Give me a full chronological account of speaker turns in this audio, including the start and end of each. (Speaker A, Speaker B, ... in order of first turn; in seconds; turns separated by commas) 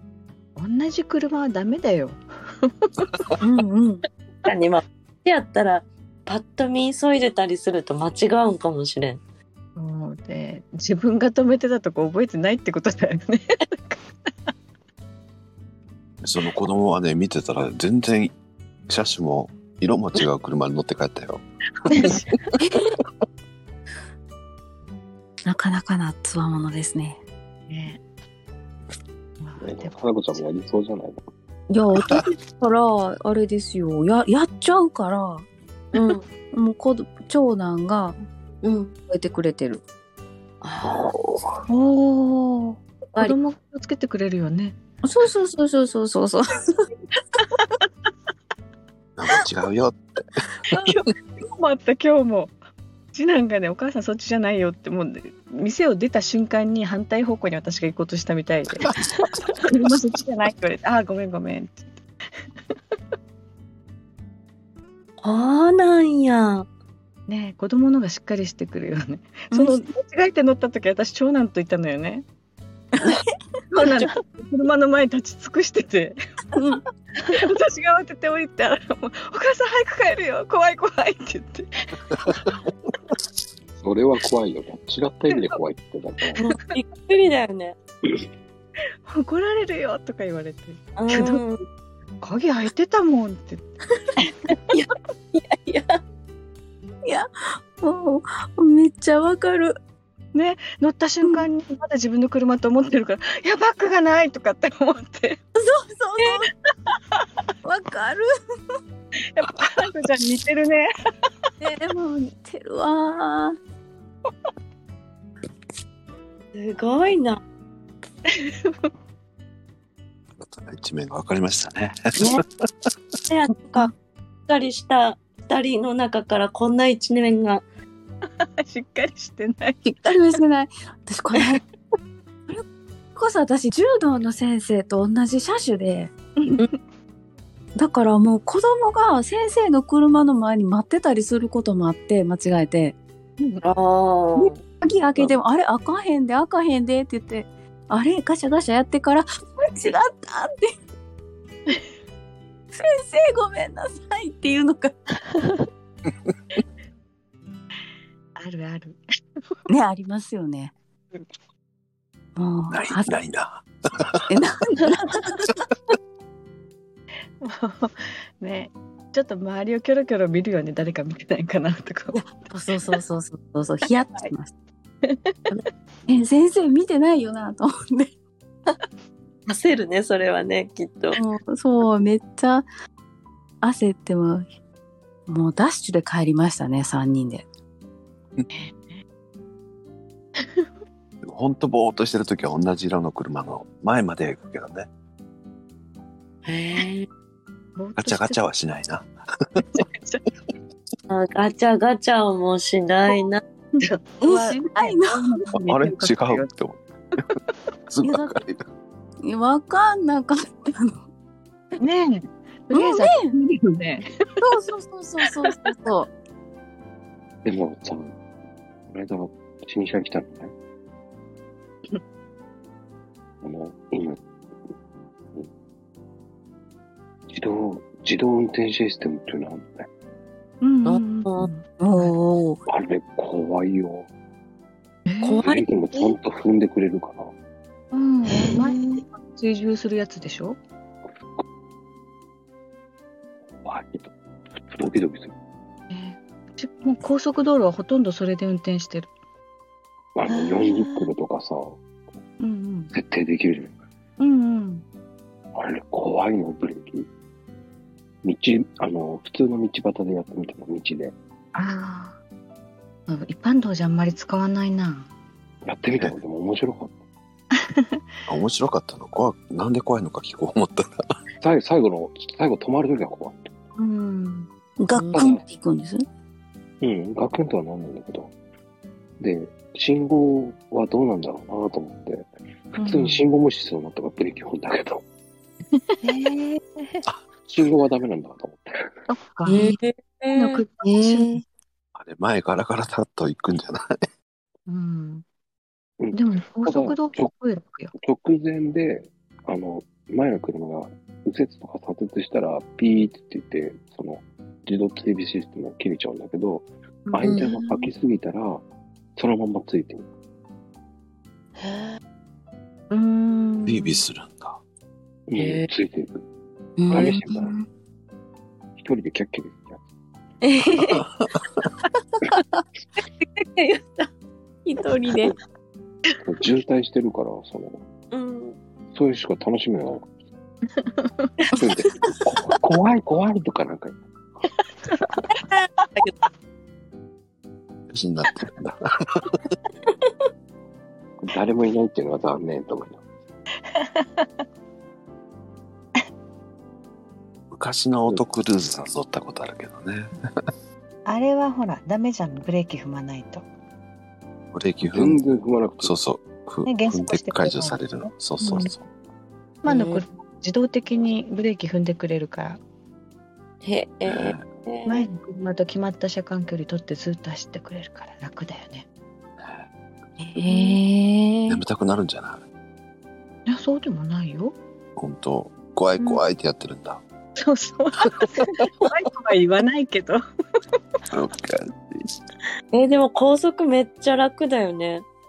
Speaker A: 0.6-3.0, Speaker B: 3.4-4.0, Speaker C: 4.4-9.2, Speaker A: 9.8-14.0, Speaker D: 16.2-18.3, Speaker D: 18.9-22.1, Speaker A: 21.9-22.3, Speaker B: 25.4-27.2, Speaker A: 27.7-28.0, Speaker A: 29.4-30.0, Speaker E: 29.6-31.2, Speaker B: 31.7-35.5, Speaker C: 35.9-36.2, Speaker B: 36.5-38.1, Speaker C: 38.6-38.9, Speaker B: 39.1-39.8, Speaker C: 40.6-41.1, Speaker D: 40.8-41.6, Speaker A: 41.7-44.8, Speaker B: 45.0-46.9, Speaker D: 49.2-50.0, Speaker A: 50.9-52.5, Speaker A: 53.1-58.9, Speaker A: 59.6-61.8, Speaker C: 65.2-66.7, Speaker A: 67.3-72.2, Speaker B: 69.5-69.8, Speaker A: 73.7-76.2, Speaker C: 73.7-74.1, Speaker A: 77.2-82.4, Speaker E: 83.8-86.4, Speaker C: 86.4-87.8, Speaker A: 89.0-91.4, Speaker C: 91.0-91.6, Speaker A: 92.2-93.6, Speaker C: 94.7-96.0, Speaker B: 97.0-99.8, Speaker A: 100.3-105.4, Speaker B: 105.5-106.5, Speaker B: 107.6-108.3, Speaker A: 109.3-110.9, Speaker B: 111.6-113.6, Speaker C: 116.5-117.4, Speaker A: 118.3-118.9, Speaker D: 120.4-122.4, Speaker C: 123.3-123.9, Speaker C: 124.5-127.6, Speaker A: 128.4-129.8, Speaker B: 129.8-131.6, Speaker B: 132.5-136.1, Speaker A: 136.4-136.7, Speaker B: 137.7-143.0, Speaker C: 143.6-144.6, Speaker B: 144.3-150.7, Speaker B: 152.7-154.9, Speaker F: 155.2-155.6, Speaker A: 158.3-159.0, Speaker B: 159.7-160.7, Speaker B: 162.3-163.1, Speaker D: 162.7-163.6, Speaker B: 164.3-165.5, Speaker A: 167.4-172.2, Speaker B: 172.1-174.5, Speaker A: 175.0-175.3, Speaker B: 176.1-178.1, Speaker C: 179.5-181.2, Speaker B: 181.1-182.7, Speaker B: 183.6-184.5, Speaker B: 185.3-187.4, Speaker A: 188.5-189.0, Speaker D: 191.2-194.9, Speaker C: 196.4-197.1, Speaker A: 197.8-198.4, Speaker D: 198.0-199.6, Speaker A: 199.7-200.2, Speaker C: 201.1-203.4, Speaker A: 203.8-206.5, Speaker B: 204.2-205.4, Speaker D: 205.5-206.8, Speaker D: 207.9-208.6, Speaker B: 208.0-208.4, Speaker B: 209.2-211.0, Speaker A: 211.8-214.4, Speaker B: 212.7-213.3, Speaker B: 214.4-216.1, Speaker E: 217.4-218.2, Speaker E: 218.9-220.5, Speaker E: 223.4-224.2, Speaker E: 227.3-229.9, Speaker A: 230.6-232.1, Speaker C: 230.8-231.5, Speaker B: 231.8-232.6, Speaker E: 232.7-234.1, Speaker A: 235.1-235.5, Speaker C: 235.2-236.1, Speaker E: 235.4-237.3, Speaker A: 237.9-240.6, Speaker F: 238.3-239.0, Speaker E: 243.6-245.3, Speaker A: 245.9-249.1, Speaker E: 250.2-251.8, Speaker F: 250.4-250.7, Speaker A: 252.4-252.9, Speaker E: 252.9-253.7, Speaker A: 254.2-254.8, Speaker E: 255.5-257.1, Speaker E: 258.2-261.1, Speaker A: 261.5-262.2, Speaker A: 263.1-265.1, Speaker E: 265.6-267.0, Speaker A: 267.5-268.0, Speaker D: 268.3-270.9, Speaker E: 271.4-273.5, Speaker A: 273.8-274.5, Speaker B: 274.8-276.0, Speaker E: 275.1-275.4, Speaker E: 276.8-278.3, Speaker E: 279.2-285.0, Speaker A: 282.8-283.2, Speaker A: 285.7-286.0, Speaker F: 286.0-287.0, Speaker E: 287.4-288.9, Speaker A: 289.1-289.7, Speaker B: 289.5-289.7, Speaker C: 289.5-290.6, Speaker A: 290.3-291.4, Speaker B: 290.8-291.4, Speaker D: 291.9-293.8, Speaker A: 294.7-295.2, Speaker E: 296.0-297.3, Speaker A: 296.1-297.9, Speaker E: 298.0-308.6, Speaker A: 307.1-307.6, Speaker E: 309.1-310.1, Speaker A: 312.9-314.0, Speaker D: 313.6-314.6, Speaker E: 315.3-316.2, Speaker C: 315.4-315.7, Speaker B: 316.8-317.6, Speaker E: 316.9-317.5, Speaker E: 318.8-319.8, Speaker C: 320.4-321.0, Speaker C: 323.5-324.1, Speaker C: 324.6-325.3, Speaker B: 324.9-325.3, Speaker E: 326.2-327.8, Speaker C: 328.1-328.6, Speaker E: 328.9-330.1, Speaker A: 330.8-331.3, Speaker E: 331.5-334.0, Speaker A: 334.9-335.2, Speaker C: 335.3-336.1, Speaker D: 337.9-339.4, Speaker E: 341.2-343.0, Speaker A: 343.7-344.3, Speaker D: 347.5-350.1, Speaker A: 351.1-353.4, Speaker D: 354.5-355.2, Speaker E: 354.8-356.0, Speaker D: 355.8-358.8, Speaker A: 356.6-358.7, Speaker A: 359.6-362.6, Speaker C: 359.6-360.0, Speaker C: 363.6-365.1, Speaker D: 364.1-364.4, Speaker A: 364.9-368.8, Speaker D: 369.4-369.6, Speaker A: 370.2-370.8, Speaker B: 370.4-371.6, Speaker D: 371.5-372.4, Speaker A: 373.5-374.6, Speaker D: 375.0-377.0, Speaker A: 377.4-380.2, Speaker D: 378.0-378.6, Speaker D: 381.1-382.2, Speaker C: 382.7-385.0